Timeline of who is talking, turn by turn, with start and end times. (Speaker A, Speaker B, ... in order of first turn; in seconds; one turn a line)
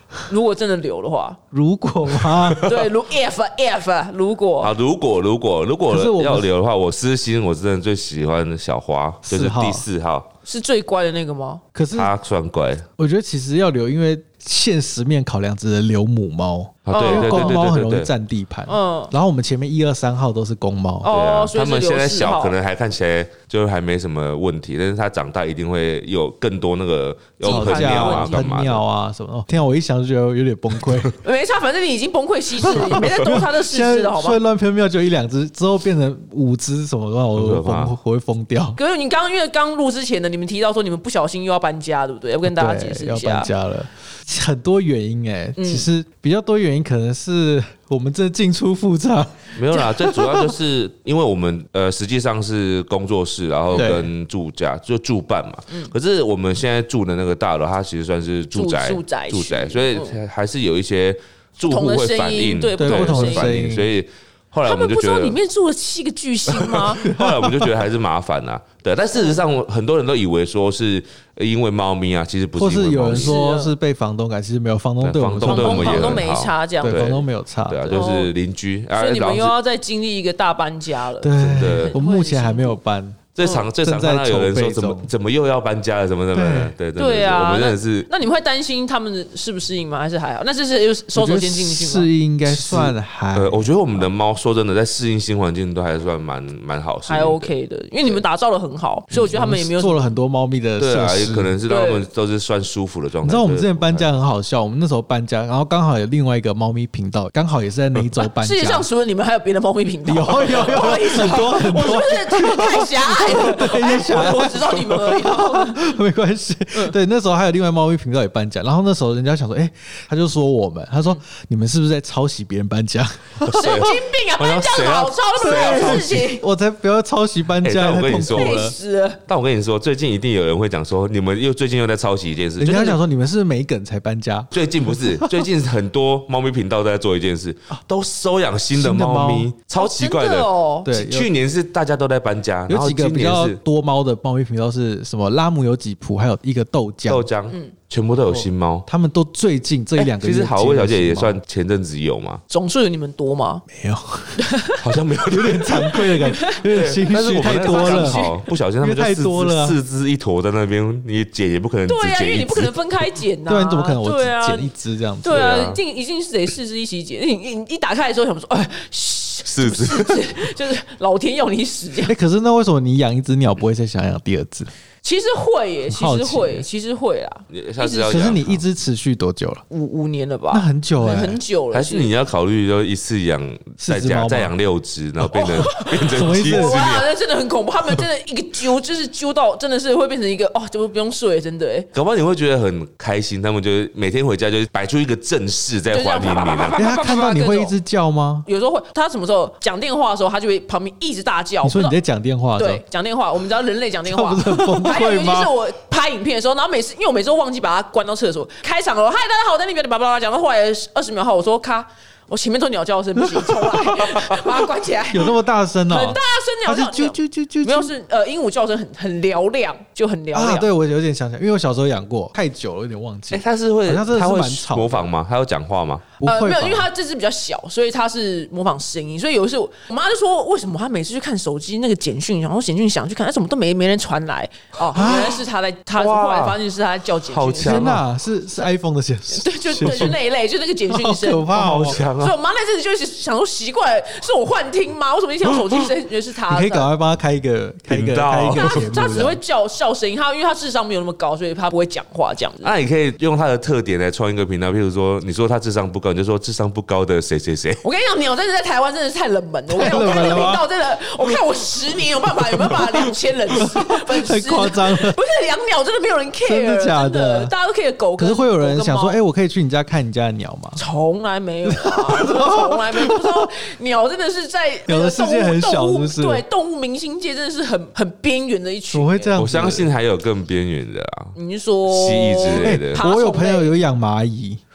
Speaker A: 0.3-1.4
Speaker B: 1.5-2.7
Speaker C: 2.3-2.8
Speaker A: 2.6-4.7
Speaker C: 4.6-10.3
Speaker B: 5.9-6.5
Speaker B: 9.3-9.9
Speaker A: 10.5-11.6
Speaker B: 11.8-12.1
Speaker C: 11.9-12.9
Speaker B: 13.0-21.1
Speaker C: 16.9-18.1
Speaker A: 16.9-17.6
Speaker A: 18.7-19.1
Speaker A: 21.0-22.6
Speaker C: 21.1-28.8
Speaker A: 27.4-28.5
Speaker B: 27.4-31.1
Speaker A: 31.2-34.4
Speaker B: 32.6-38.8
Speaker C: 37.4-37.9
Speaker A: 38.8-43.5
Speaker B: 42.5-50.5
Speaker A: 45.6-45.9
Speaker C: 49.6-65.4
Speaker B: 53.7-54.1
Speaker A: 58.5-60.1
Speaker A: 61.7-63.6
Speaker B: 62.8-63.9
Speaker A: 64.7-67.0
Speaker C: 66.5-73.4
Speaker B: 67.0-67.7
Speaker B: 72.6-76.3
Speaker A: 73.1-73.7
Speaker C: 75.0-79.5
Speaker A: 75.4-77.0
Speaker B: 76.8-77.9
Speaker A: 77.9-78.3
Speaker A: 79.0-82.8
Speaker B: 81.2-85.1
Speaker C: 81.4-82.0
Speaker C: 83.3-88.1
Speaker A: 83.4-83.7
Speaker B: 86.3-86.7
Speaker A: 87.0-92.1
Speaker B: 91.1-94.1
Speaker C: 92.5-97.5
Speaker A: 97.1-100.0
Speaker B: 99.2-101.6
Speaker C: 100.8-104.1
Speaker A: 101.7-102.1
Speaker B: 103.2-108.9
Speaker A: 108.4-115.9
Speaker B: 110.1-123.8
Speaker C: 114.7-115.0
Speaker C: 123.4-126.3
Speaker A: 123.5-126.4
Speaker B: 125.4-128.7
Speaker C: 127.6-128.6
Speaker A: 128.3-129.2
Speaker C: 129.3-133.0
Speaker B: 132.6-135.5
Speaker C: 134.5-143.6
Speaker B: 138.7-139.5
Speaker A: 139.8-140.9
Speaker B: 140.8-141.3
Speaker B: 142.7-147.3
Speaker C: 147.1-148.9
Speaker B: 148.2-151.4
Speaker C: 150.1-152.4
Speaker A: 152.5-153.7
Speaker B: 153.7-154.4
Speaker A: 154.4-154.8
Speaker C: 154.8-155.9
Speaker B: 155.3-158.3
Speaker A: 155.9-156.6
Speaker C: 156.7-162.8
Speaker A: 157.3-158.4
Speaker B: 158.8-159.8
Speaker A: 161.9-164.7
Speaker B: 163.5-165.8
Speaker A: 165.2-172.1
Speaker C: 165.3-165.7
Speaker C: 169.5-170.3
Speaker B: 172.1-174.7
Speaker A: 175.0-178.2
Speaker B: 175.9-176.7
Speaker C: 177.5-178.6
Speaker B: 178.1-179.6
Speaker A: 179.7-182.1
Speaker B: 180.5-181.4
Speaker C: 181.7-187.1
Speaker B: 183.8-184.5
Speaker A: 185.3-191.9
Speaker B: 186.1-186.8
Speaker C: 191.9-196.8
Speaker A: 195.9-197.8
Speaker B: 196.8-198.5
Speaker A: 198.5-201.9
Speaker B: 201.6-202.8
Speaker A: 202.6-215.3
Speaker B: 204.1-205.5
Speaker B: 213.2-213.6
Speaker B: 215.1-217.9
Speaker A: 215.9-220.7
Speaker B: 220.3-225.1
Speaker C: 223.3-226.1
Speaker B: 226.2-226.9
Speaker A: 226.2-237.9
Speaker B: 234.9-235.4
Speaker C: 236.0-236.6
Speaker C: 237.3-238.0
Speaker B: 237.6-240.2
Speaker A: 239.3-246.9
Speaker B: 240.9-242.0
Speaker C: 241.5-242.4
Speaker B: 246.5-249.4
Speaker C: 247.9-248.9
Speaker A: 248.6-252.7
Speaker C: 252.6-257.8
Speaker A: 257.8-269.2
Speaker B: 259.7-260.6
Speaker B: 262.6-265.2
Speaker B: 266.4-267.5
Speaker B: 268.2-270.8
Speaker A: 270.8-279.4
Speaker B: 271.6-273.5
Speaker B: 274.9-276.4
Speaker B: 278.9-279.9
Speaker C: 279.4-281.3
Speaker A: 281.4-283.7
Speaker C: 281.9-283.0
Speaker B: 282.6-284.6